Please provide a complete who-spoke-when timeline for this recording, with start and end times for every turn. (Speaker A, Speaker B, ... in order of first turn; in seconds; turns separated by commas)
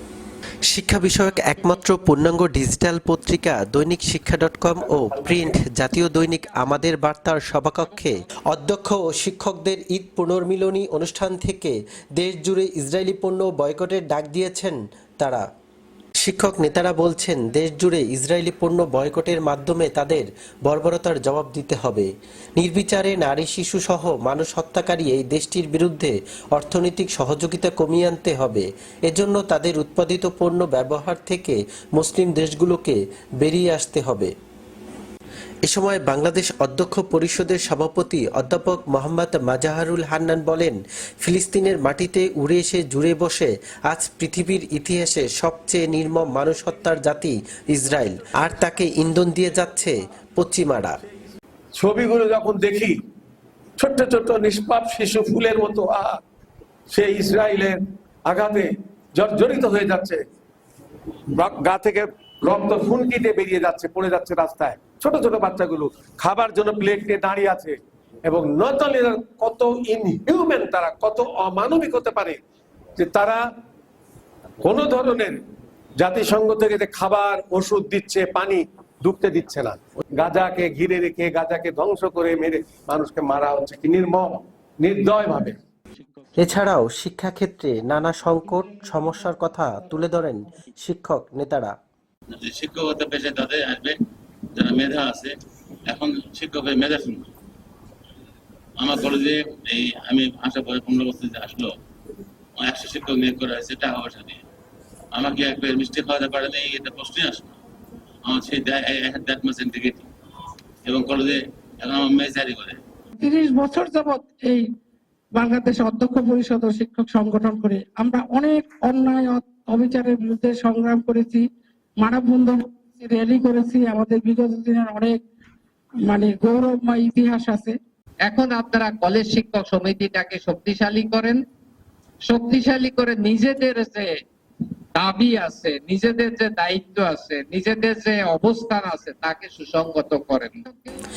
Speaker A: 0.7-15.4, Speaker A: 16.2-34.3, Speaker A: 35.7-51.0, Speaker B: 51.8-53.0, Speaker B: 53.8-56.2, Speaker B: 56.9-60.2, Speaker B: 61.4-72.4, Speaker B: 73.0-73.4, Speaker B: 74.6-75.4, Speaker B: 76.0-85.6, Speaker A: 86.4-91.7, Speaker C: 92.4-94.0, Speaker C: 94.5-95.3, Speaker C: 95.9-97.3, Speaker C: 98.8-101.7, Speaker C: 102.6-104.4, Speaker C: 105.1-107.6, Speaker C: 108.3-110.1, Speaker C: 110.8-112.8, Speaker D: 113.2-114.7, Speaker D: 115.3-121.4, Speaker D: 122.0-125.2, Speaker D: 126.1-127.8, Speaker E: 128.3-131.4, Speaker E: 132.3-134.1, Speaker E: 134.9-140.9